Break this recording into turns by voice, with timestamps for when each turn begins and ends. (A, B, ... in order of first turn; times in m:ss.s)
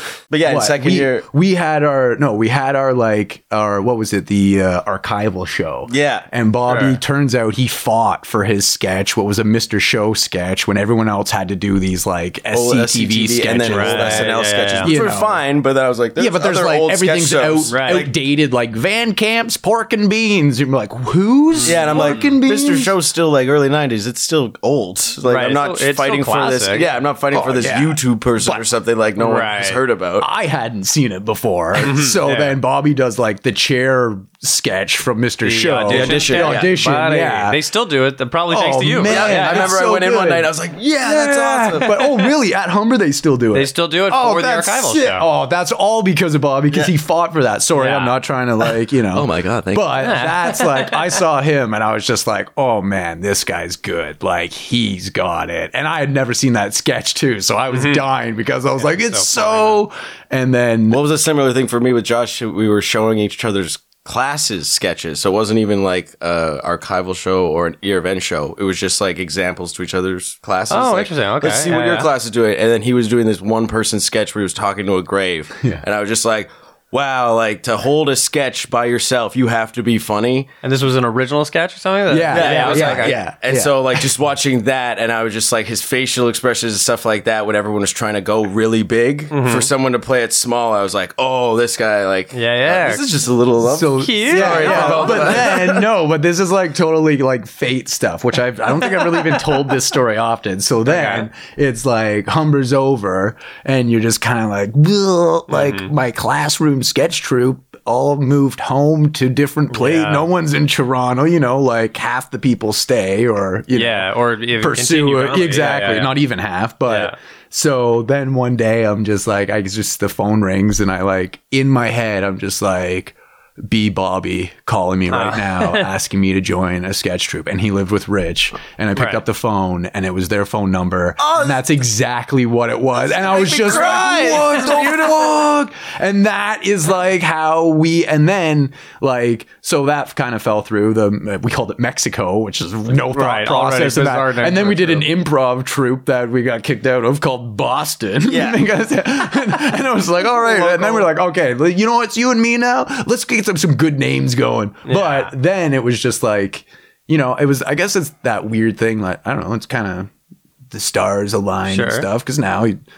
0:00.3-0:01.3 A
0:00.4-0:14.3 B
0:05.9-0:06.3 A
0:06.7-0:07.0 C
0:12.5-0:18.1 A
0:13.7-0:15.0 C
0:14.8-0:15.4 B
0:16.2-0:22.9 B
0:17.7-0:18.1 C
0:21.6-0:22.3 C
0:21.6-0:30.3 A
0:25.3-0:26.9 C
0:27.3-0:28.6 B
0:29.2-0:29.8 C
0:30.2-0:37.6 B
0:31.8-0:32.6 C
0:35.4-0:39.7 C
0:35.9-0:36.7 A
0:38.5-0:40.5 B
0:39.0-0:42.2 A
0:41.0-1:01.0 B
0:43.5-0:45.3 C
0:47.8-0:48.2 C
0:49.1-0:50.1 A
0:50.0-0:51.0 C
0:57.7-0:58.0 C
0:58.8-0:59.8 C
1:00.9-1:20.5 A
1:10.7-1:12.1 C
1:20.6-1:23.2 C
1:22.1-1:24.1 B
1:22.3-1:35.9 A
1:29.3-1:29.7 C
1:32.3-1:33.0 C
1:33.6-2:40.1 B
1:34.0-1:35.6 C
1:39.0-1:39.6 C
1:40.9-1:41.3 C
1:45.5-1:45.9 C
1:49.7-1:50.3 C
1:53.7-1:56.2 C
1:56.9-1:57.2 C
2:05.1-2:05.9 C
2:08.9-2:09.2 C
2:11.2-2:11.6 A
2:13.0-2:15.4 A
2:23.1-2:25.1 C
2:28.3-2:28.6 A
2:30.4-2:31.1 A
2:34.9-2:35.3 C
2:40.7-2:42.8 B
2:41.7-2:42.1 C